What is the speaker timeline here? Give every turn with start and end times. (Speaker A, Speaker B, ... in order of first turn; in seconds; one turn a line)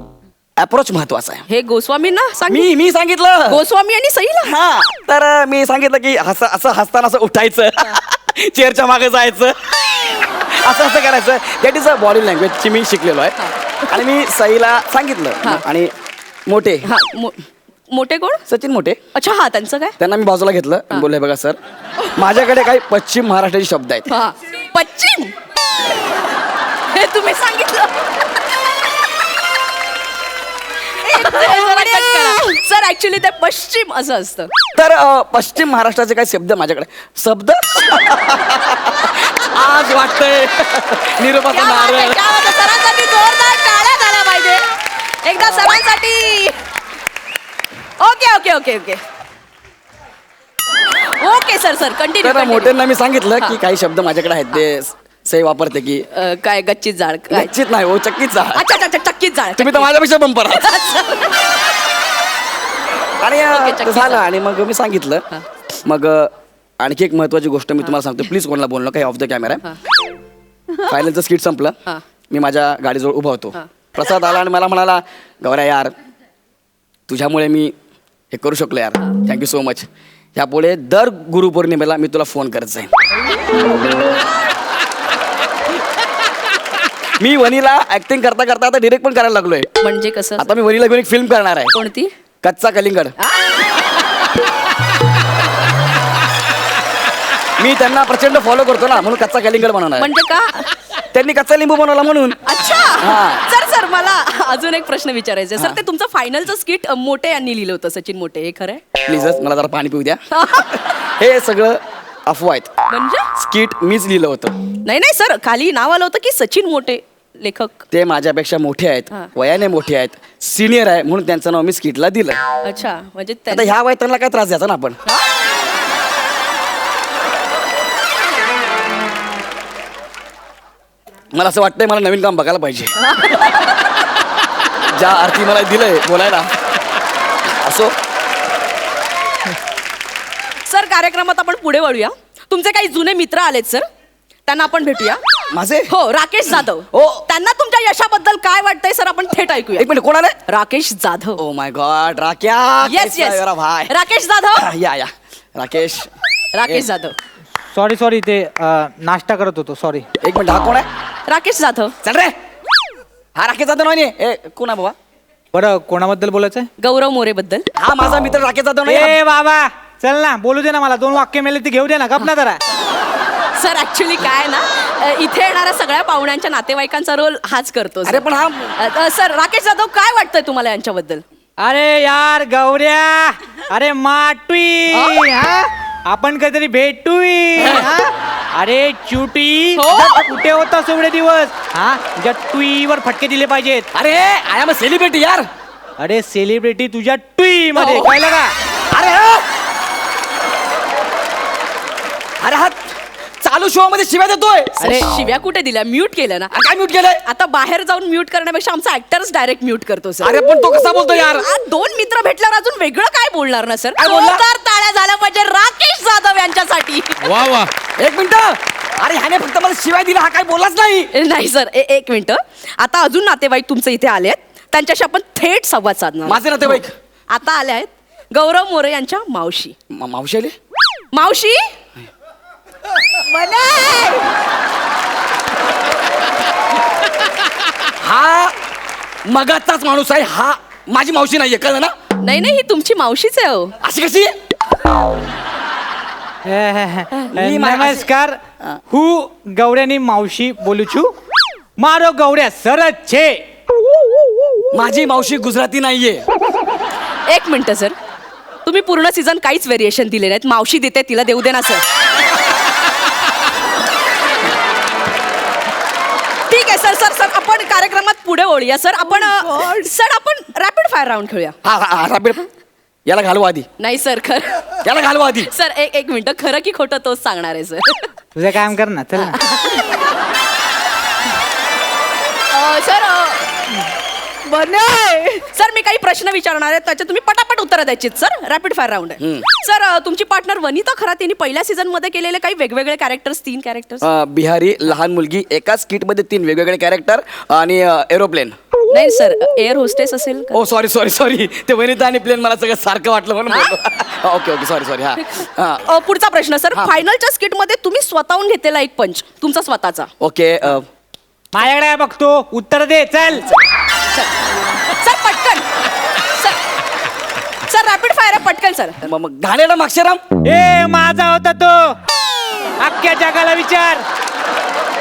Speaker A: 0.6-1.4
Speaker B: 1.5-2.7
Speaker A: 2.5-3.6
Speaker B: 3.5-4.5
Speaker A: 4.4-13.4
Speaker B: 13.4-14.0
Speaker A: 13.9-15.9
Speaker A: 16.5-16.9
Speaker B: 16.8-18.4
Speaker A: 18.5-19.0
Speaker B: 19.1-20.0
Speaker A: 20.0-21.6
Speaker A: 22.1-24.1
Speaker B: 24.1-25.4
Speaker B: 26.9-28.1
Speaker B: 30.9-34.5
Speaker A: 34.8-42.2
Speaker B: 41.5-44.6
Speaker B: 45.2-46.6
Speaker B: 48.0-49.0
Speaker B: 50.9-52.8
Speaker A: 52.2-56.1
Speaker B: 56.1-57.5
Speaker A: 57.3-58.6
Speaker B: 58.5-59.9
Speaker A: 59.6-60.8
Speaker B: 60.5-61.6
Speaker A: 63.2-65.2
Speaker B: 63.5-64.2
Speaker A: 65.8-69.6
Speaker A: 70.8-71.8
Speaker A: 72.3-75.9
Speaker A: 77.1-77.7
Speaker A: 78.3-82.9
Speaker A: 87.2-89.7
Speaker B: 89.8-90.5
Speaker A: 90.4-91.7
Speaker B: 91.7-92.1
Speaker A: 92.4-93.2
Speaker B: 93.2-93.7
Speaker A: 97.6-100.1
Speaker B: 100.0-100.7
Speaker A: 101.1-102.4
Speaker B: 102.5-108.8
Speaker A: 103.0-103.4
Speaker A: 109.1-112.7
Speaker B: 110.3-110.8
Speaker B: 112.9-113.3
Speaker A: 113.3-114.5
Speaker B: 114.8-117.8
Speaker A: 117.9-122.4
Speaker B: 122.6-123.7
Speaker A: 123.5-125.0
Speaker A: 131.3-133.3
Speaker B: 133.0-133.9
Speaker A: 134.8-136.5
Speaker A: 137.5-137.9
Speaker B: 140.6-143.8
Speaker B: 144.5-145.2
Speaker A: 145.5-145.9
Speaker B: 145.9-149.9
Speaker A: 146.6-147.2
Speaker A: 149.8-150.4
Speaker B: 150.5-151.4
Speaker A: 151.4-153.9
Speaker B: 152.8-154.7
Speaker A: 154.5-156.1
Speaker B: 156.5-157.1
Speaker C: 157.7-160.1
Speaker A: 160.2-160.9
Speaker B: 161.3-161.9
Speaker A: 162.0-162.3
Speaker A: 163.4-165.0
Speaker C: 165.5-166.7
Speaker B: 166.8-167.7
Speaker A: 167.8-169.2
Speaker C: 168.9-172.6
Speaker B: 173.6-181.2
Speaker A: 178.1-178.8
Speaker C: 181.6-193.9
Speaker B: 184.9-185.2
Speaker A: 187.6-187.9
Speaker B: 189.8-190.2
Speaker A: 193.9-195.5
Speaker C: 196.0-198.5
Speaker A: 197.8-198.2
Speaker A: 198.9-199.4
Speaker A: 202.4-204.8
Speaker B: 204.8-206.5
Speaker A: 206.5-207.2
Speaker B: 207.2-210.4
Speaker A: 210.2-211.5
Speaker B: 211.2-217.6
Speaker A: 214.0-214.5
Speaker A: 218.0-221.1
Speaker B: 221.1-229.8
Speaker A: 226.3-226.9
Speaker A: 229.9-230.5
Speaker B: 231.1-231.7
Speaker B: 233.3-234.3
Speaker A: 237.8-238.6
Speaker A: 239.3-241.9
Speaker B: 242.2-243.7
Speaker A: 243.8-244.3
Speaker C: 246.5-248.4
Speaker A: 247.3-248.1
Speaker C: 248.9-251.1
Speaker C: 251.8-253.4
Speaker A: 254.7-256.2
Speaker B: 257.3-257.9
Speaker B: 258.6-261.9
Speaker B: 266.5-271.6
Speaker A: 271.6-272.4
Speaker A: 273.1-273.7
Speaker B: 273.8-274.7
Speaker A: 274.8-275.5
Speaker B: 275.4-278.1
Speaker C: 278.4-279.4
Speaker B: 279.2-280.1
Speaker B: 282.5-283.6
Speaker B: 284.4-294.1
Speaker A: 289.2-289.5
Speaker A: 294.0-298.6
Speaker B: 298.9-300.6
Speaker A: 300.5-305.9
Speaker B: 303.5-303.8
Speaker B: 305.2-310.1
Speaker A: 306.7-307.0
Speaker A: 310.2-310.9
Speaker C: 311.5-313.5
Speaker B: 315.0-315.7
Speaker B: 316.2-316.6
Speaker B: 317.7-319.1
Speaker A: 319.0-320.2
Speaker C: 320.5-321.9
Speaker C: 322.8-324.1